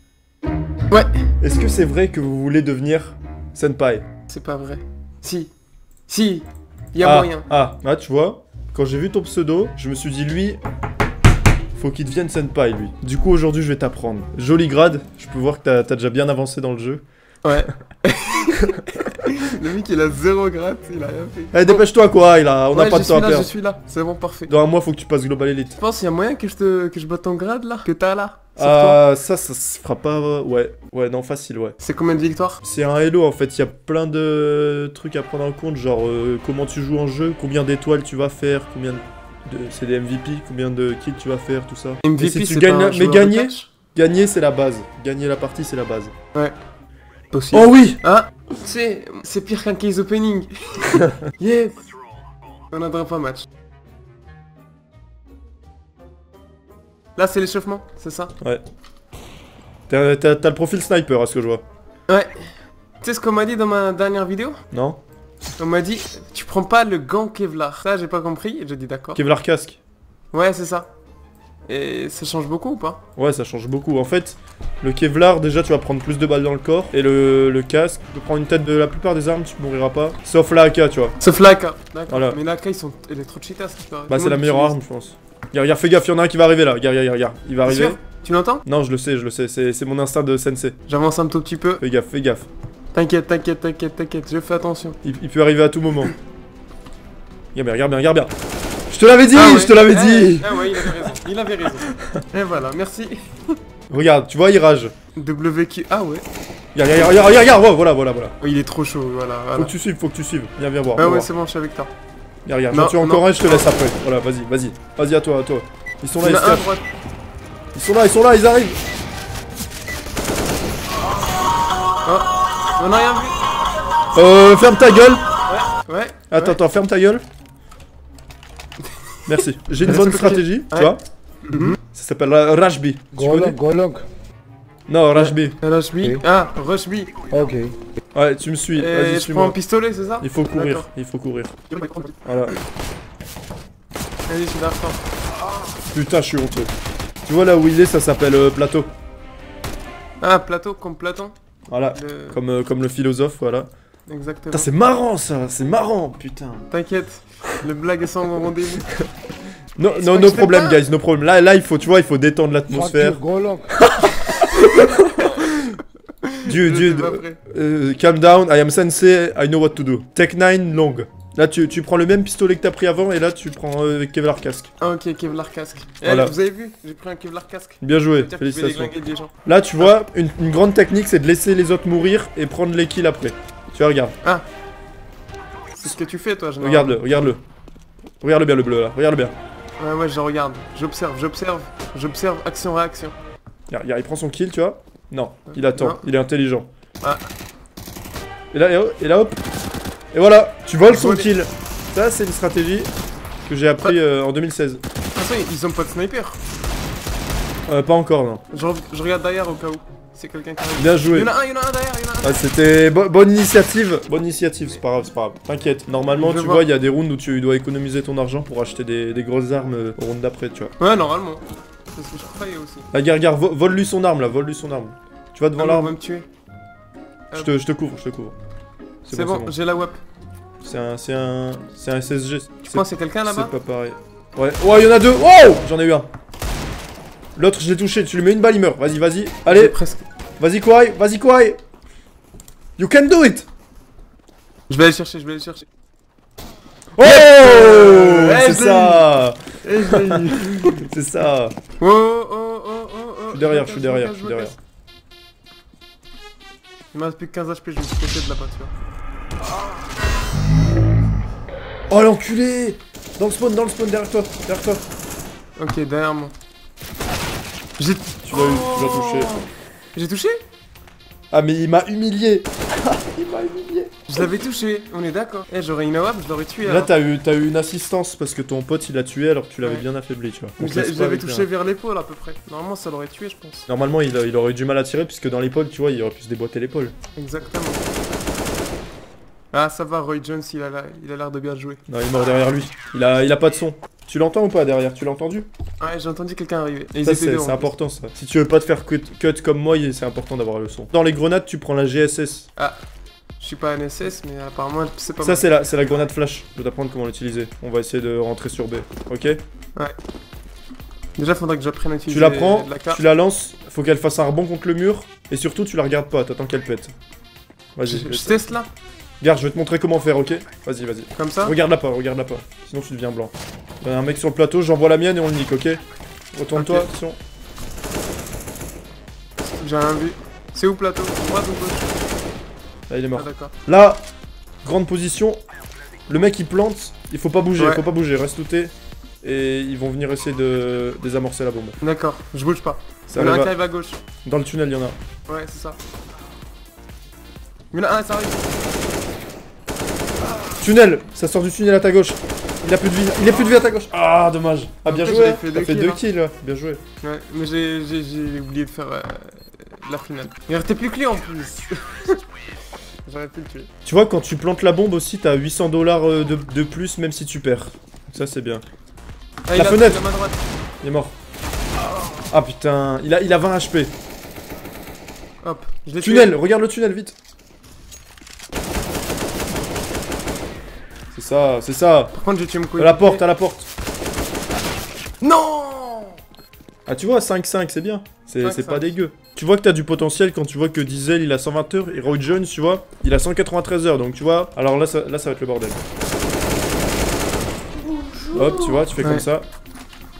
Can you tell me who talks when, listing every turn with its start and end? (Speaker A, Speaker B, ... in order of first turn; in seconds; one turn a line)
Speaker A: 1.4-4.0
Speaker B: 4.3-5.5
Speaker B: 6.1-7.5
Speaker A: 7.0-10.6
Speaker A: 11.8-17.0
Speaker B: 17.4-21.8
Speaker A: 21.5-23.5
Speaker B: 22.7-24.5
Speaker A: 24.5-25.8
Speaker B: 25.8-29.0
Speaker A: 28.6-31.8
Speaker B: 31.8-32.6
Speaker A: 32.6-46.1
Speaker B: 42.0-43.7
Speaker B: 47.3-51.9
Speaker A: 47.5-48.0
Speaker B: 52.7-53.5
Speaker B: 57.1-58.3
Speaker A: 59.9-61.6
Speaker B: 62.1-64.6
Speaker A: 64.7-65.0
Speaker B: 65.6-69.2
Speaker A: 69.1-69.8
Speaker B: 70.3-70.9
Speaker B: 71.7-73.0
Speaker A: 73.2-81.2
Speaker B: 81.2-84.8
Speaker A: 82.1-82.4
Speaker A: 84.1-88.0
Speaker B: 87.6-88.6
Speaker A: 88.6-90.8
Speaker B: 90.8-91.8
Speaker A: 91.8-92.5
Speaker B: 92.9-95.0
Speaker A: 95.0-96.1
Speaker A: 97.5-98.3
Speaker A: 98.9-101.1
Speaker B: 99.3-103.6
Speaker A: 103.9-104.9
Speaker B: 105.1-106.2
Speaker A: 106.7-108.3
Speaker B: 106.9-107.3
Speaker B: 108.4-109.7
Speaker A: 109.5-111.3
Speaker B: 111.0-111.9
Speaker A: 112.4-116.7
Speaker B: 112.7-113.7
Speaker B: 116.2-116.8
Speaker A: 117.7-118.8
Speaker B: 122.0-123.4
Speaker A: 124.1-125.2
Speaker B: 125.5-126.6
Speaker A: 126.3-127.2
Speaker A: 129.3-131.0
Speaker B: 129.8-130.9
Speaker B: 131.5-131.8
Speaker A: 131.8-133.6
Speaker C: 133.1-134.1
Speaker A: 134.9-135.6
Speaker B: 135.1-137.1
Speaker C: 137.3-137.8
Speaker A: 138.1-139.6
Speaker B: 138.8-140.8
Speaker A: 140.2-141.7
Speaker B: 141.7-142.1
Speaker A: 142.2-142.6
Speaker B: 144.3-145.0
Speaker A: 145.9-146.7
Speaker A: 147.2-148.9
Speaker B: 150.2-151.3
Speaker A: 151.7-153.7
Speaker B: 151.9-152.4
Speaker B: 154.1-154.7
Speaker A: 154.5-156.7
Speaker B: 156.7-158.9
Speaker A: 159.8-165.3
Speaker B: 159.9-160.8
Speaker C: 162.7-163.9
Speaker B: 164.2-164.5
Speaker B: 165.2-167.4
Speaker A: 166.4-174.7
Speaker B: 174.8-179.9
Speaker A: 176.0-176.3
Speaker A: 177.8-184.2
Speaker B: 185.8-187.0
Speaker A: 186.6-187.4
Speaker A: 188.2-189.3
Speaker B: 189.8-193.1
Speaker A: 193.7-196.7
Speaker B: 195.5-196.0
Speaker A: 198.5-199.4
Speaker A: 200.1-202.9
Speaker B: 200.8-201.3
Speaker A: 203.4-204.8
Speaker B: 205.1-206.4
Speaker A: 207.7-208.4
Speaker B: 208.5-212.5
Speaker A: 210.8-211.3
Speaker A: 212.2-220.7
Speaker B: 216.1-216.6
Speaker B: 220.8-222.9
Speaker A: 222.9-225.9
Speaker B: 225.6-226.3
Speaker A: 227.3-228.3
Speaker A: 229.0-229.5
Speaker B: 229.1-230.0
Speaker A: 230.6-236.1
Speaker B: 232.6-233.5
Speaker A: 237.3-239.8
Speaker B: 239.5-240.0
Speaker A: 240.4-241.6
Speaker A: 242.8-243.5
Speaker B: 244.7-245.7
Speaker A: 247.0-251.6
Speaker B: 247.0-250.8
Speaker B: 251.8-254.5
Speaker A: 253.3-254.6
Speaker B: 256.9-258.7
Speaker A: 261.9-264.8
Speaker B: 265.6-266.3
Speaker B: 267.8-270.4
Speaker A: 268.2-269.3
Speaker A: 271.3-274.3
Speaker B: 274.1-276.9
Speaker A: 276.6-281.5
Speaker B: 280.6-283.7
Speaker A: 283.7-286.9
Speaker B: 287.1-287.8
Speaker B: 289.5-291.8
Speaker A: 291.9-295.5
Speaker B: 295.8-297.7
Speaker A: 297.0-302.5
Speaker B: 303.4-305.4
Speaker A: 305.2-309.4
Speaker B: 311.2-313.0
Speaker A: 312.1-316.9
Speaker A: 317.8-318.5
Speaker B: 317.8-318.7
Speaker A: 319.2-325.8
Speaker B: 321.1-321.5
Speaker A: 326.3-327.2
Speaker B: 326.5-326.9
Speaker B: 329.4-331.9
Speaker A: 332.9-334.1
Speaker B: 333.1-333.5
Speaker A: 334.6-335.4
Speaker A: 336.1-341.8
Speaker B: 337.6-337.8
Speaker B: 341.8-344.0
Speaker A: 343.1-343.6
Speaker A: 344.2-345.0
Speaker B: 345.3-345.8
Speaker B: 347.7-348.6
Speaker A: 350.6-356.8
Speaker B: 354.9-356.0
Speaker B: 357.0-362.2
Speaker B: 363.0-363.7
Speaker A: 363.8-368.6
Speaker B: 369.5-370.5
Speaker A: 369.5-370.0
Speaker A: 370.8-371.1
Speaker A: 372.3-373.9
Speaker B: 375.4-376.4
Speaker A: 376.0-377.1
Speaker A: 381.1-382.1
Speaker B: 382.1-383.2
Speaker A: 382.8-383.7
Speaker B: 385.2-386.2
Speaker A: 386.9-395.8
Speaker B: 388.4-388.9
Speaker B: 397.9-399.2
Speaker A: 398.3-399.4